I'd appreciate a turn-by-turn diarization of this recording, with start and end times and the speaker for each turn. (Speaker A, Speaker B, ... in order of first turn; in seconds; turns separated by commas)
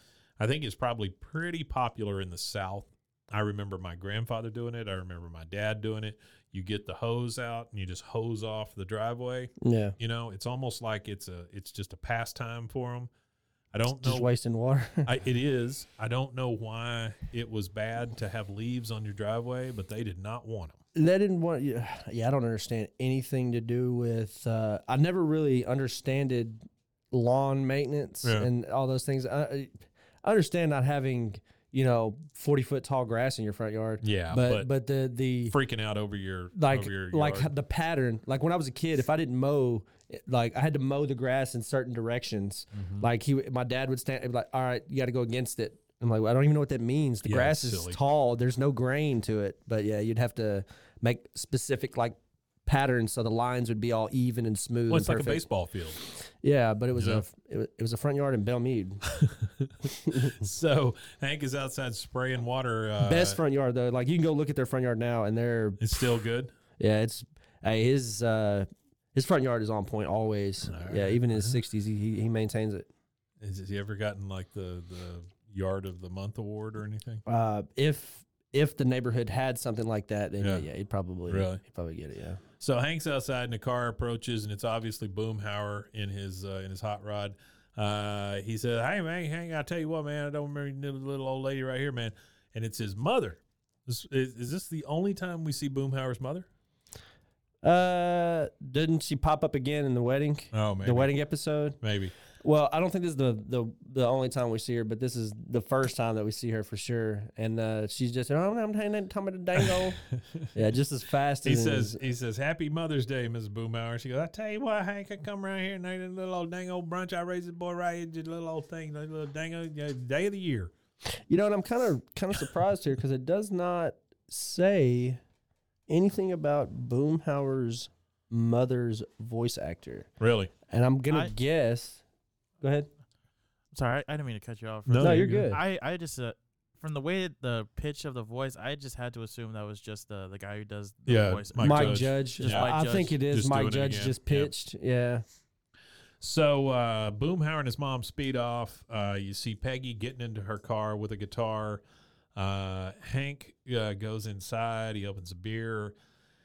Speaker A: 0.4-13.1, Speaker B: 9.6-9.9, Speaker A: 13.7-14.3, Speaker B: 13.9-15.1, Speaker A: 15.0-20.8, Speaker B: 20.9-35.5, Speaker A: 28.2-28.5, Speaker A: 34.0-34.7, Speaker A: 35.5-37.5, Speaker B: 36.5-55.4, Speaker A: 42.7-43.1, Speaker A: 47.2-48.0, Speaker A: 54.9-56.0, Speaker B: 56.4-59.0, Speaker A: 56.9-57.2, Speaker A: 59.1-63.4, Speaker B: 60.0-60.3, Speaker B: 63.0-65.8, Speaker A: 65.8-66.5, Speaker B: 66.8-72.9, Speaker A: 70.6-71.6, Speaker A: 73.4-77.2, Speaker B: 77.2-82.4, Speaker A: 80.4-80.7, Speaker A: 81.3-81.6, Speaker A: 82.6-96.5, Speaker B: 97.6-101.8, Speaker A: 100.5-101.1, Speaker A: 101.8-102.1, Speaker B: 102.4-110.0, Speaker A: 109.6-110.4, Speaker B: 110.5-112.0, Speaker A: 111.4-120.7, Speaker B: 121.3-125.2, Speaker B: 125.9-130.1, Speaker A: 130.2-130.5, Speaker B: 130.7-132.0, Speaker B: 132.6-132.9, Speaker C: 133.7-143.2, Speaker A: 134.9-135.5, Speaker B: 135.0-135.6, Speaker A: 141.1-144.5, Speaker B: 141.6-145.2, Speaker A: 146.2-151.8, Speaker A: 152.3-155.9